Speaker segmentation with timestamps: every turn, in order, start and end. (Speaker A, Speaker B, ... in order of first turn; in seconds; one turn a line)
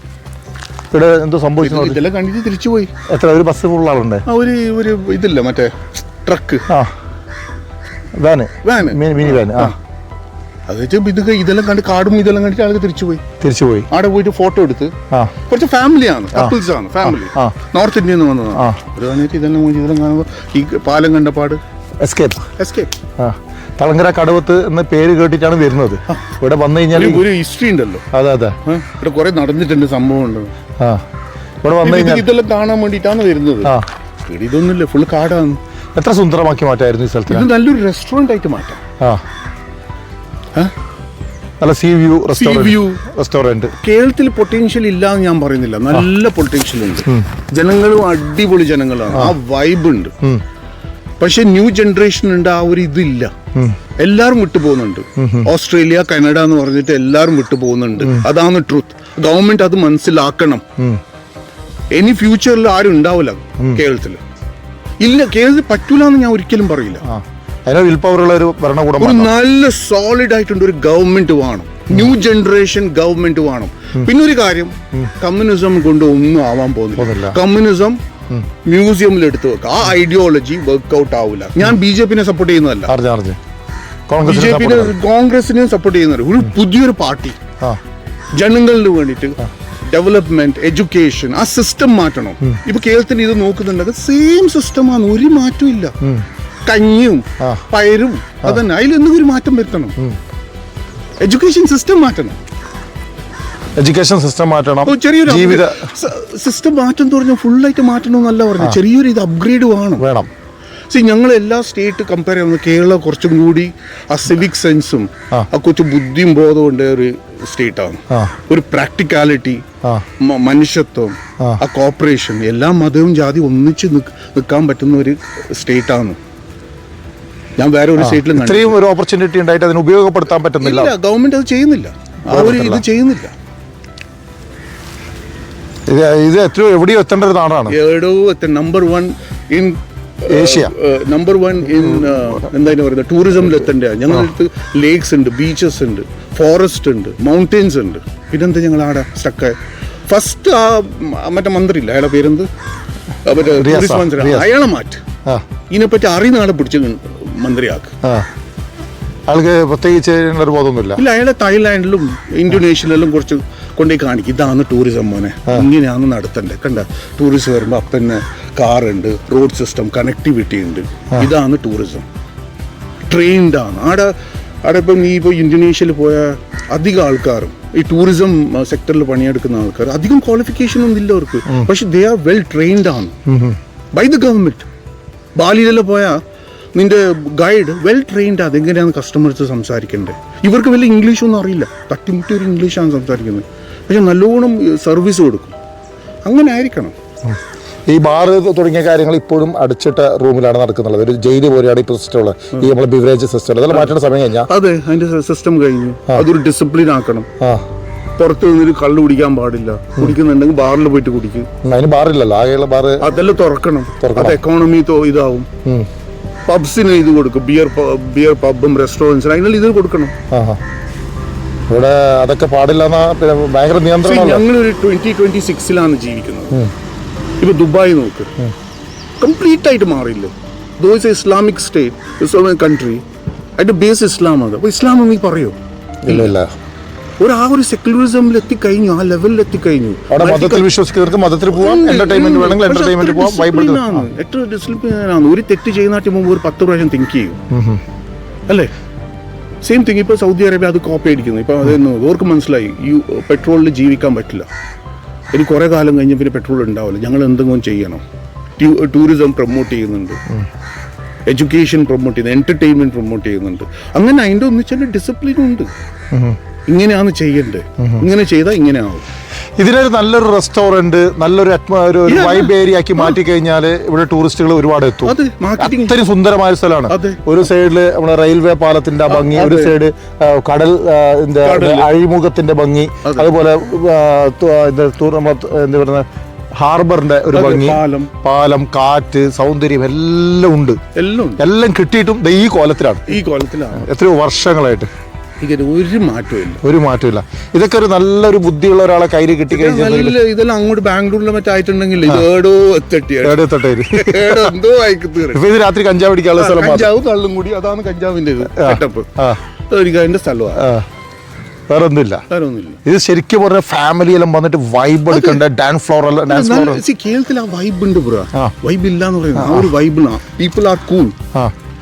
Speaker A: 0.9-2.0
Speaker B: 1.6-2.9
Speaker A: 3.1-4.2
Speaker B: 4.2-6.7
Speaker A: 8.2-9.7
Speaker B: 8.6-9.7
Speaker B: 10.7-13.2
Speaker A: 13.4-13.9
Speaker B: 13.9-14.9
Speaker B: 15.5-21.6
Speaker A: 17.1-17.5
Speaker A: 18.5-18.8
Speaker A: 22.0-22.4
Speaker B: 22.6-22.9
Speaker A: 23.2-27.2
Speaker B: 26.9-28.1
Speaker A: 28.1-28.6
Speaker B: 28.6-30.5
Speaker A: 31.6-32.2
Speaker B: 31.8-33.7
Speaker B: 34.2-35.6
Speaker A: 36.0-37.5
Speaker B: 37.3-38.8
Speaker A: 41.6-43.7
Speaker B: 42.4-43.0
Speaker B: 43.8-50.1
Speaker B: 51.2-53.3
Speaker B: 54.0-60.6
Speaker A: 55.2-55.5
Speaker B: 61.9-64.2
Speaker B: 65.0-67.0
Speaker A: 67.0-69.3
Speaker B: 69.0-78.0
Speaker A: 77.0-77.4
Speaker B: 78.6-82.9
Speaker A: 82.9-83.4
Speaker A: 84.1-85.0
Speaker B: 84.2-87.4
Speaker B: 88.3-89.4
Speaker B: 89.9-95.9
Speaker A: 96.0-96.2
Speaker B: 96.7-100.0
Speaker A: 97.4-97.7
Speaker B: 101.2-102.3
Speaker A: 103.8-105.9
Speaker B: 104.8-110.0
Speaker A: 110.0-110.3
Speaker B: 110.9-119.6
Speaker B: 120.2-126.2
Speaker B: 127.6-128.8
Speaker A: 128.0-130.9
Speaker B: 130.6-133.3
Speaker A: 132.3-132.8
Speaker A: 135.9-137.8
Speaker B: 137.7-149.6
Speaker A: 140.3-140.7
Speaker B: 150.1-152.5
Speaker B: 153.2-155.0
Speaker A: 153.5-154.5
Speaker B: 155.7-157.9
Speaker A: 159.3-161.0
Speaker B: 160.9-172.1
Speaker B: 173.1-183.2
Speaker A: 183.3-183.6
Speaker B: 183.9-184.7
Speaker B: 185.3-186.2
Speaker B: 186.7-195.5
Speaker B: 196.2-196.9
Speaker A: 197.2-204.5
Speaker B: 203.7-203.9
Speaker B: 204.4-207.3
Speaker B: 208.2-211.5
Speaker A: 211.6-213.0
Speaker B: 213.0-215.5
Speaker A: 214.0-214.4
Speaker B: 216.5-220.1
Speaker A: 220.3-220.6
Speaker A: 221.7-224.4
Speaker B: 224.0-226.5
Speaker B: 227.4-228.3
Speaker B: 229.2-233.0
Speaker B: 233.6-236.4
Speaker A: 236.0-236.5
Speaker B: 237.2-240.7
Speaker A: 240.1-244.0
Speaker B: 241.5-247.4
Speaker A: 247.5-247.8
Speaker B: 249.6-254.5
Speaker B: 255.3-258.0
Speaker B: 258.6-260.2
Speaker B: 261.3-265.7
Speaker A: 266.1-266.4
Speaker B: 266.7-269.1
Speaker A: 269.6-290.8
Speaker B: 272.0-273.2
Speaker B: 275.0-276.0
Speaker B: 276.9-277.2
Speaker B: 279.1-279.7
Speaker B: 281.4-281.9
Speaker B: 287.3-288.1
Speaker B: 290.9-291.4
Speaker A: 291.4-293.2
Speaker B: 293.1-293.9
Speaker A: 293.8-294.9
Speaker B: 295.4-296.6
Speaker A: 296.6-300.2
Speaker B: 299.5-305.4
Speaker A: 303.2-304.5
Speaker A: 305.3-306.9
Speaker B: 306.3-309.1
Speaker A: 308.5-309.4
Speaker B: 309.7-310.6
Speaker A: 310.6-310.8
Speaker A: 311.7-312.2
Speaker B: 312.3-312.8
Speaker A: 312.8-316.8
Speaker B: 315.1-315.4
Speaker B: 316.3-321.1
Speaker A: 319.4-319.7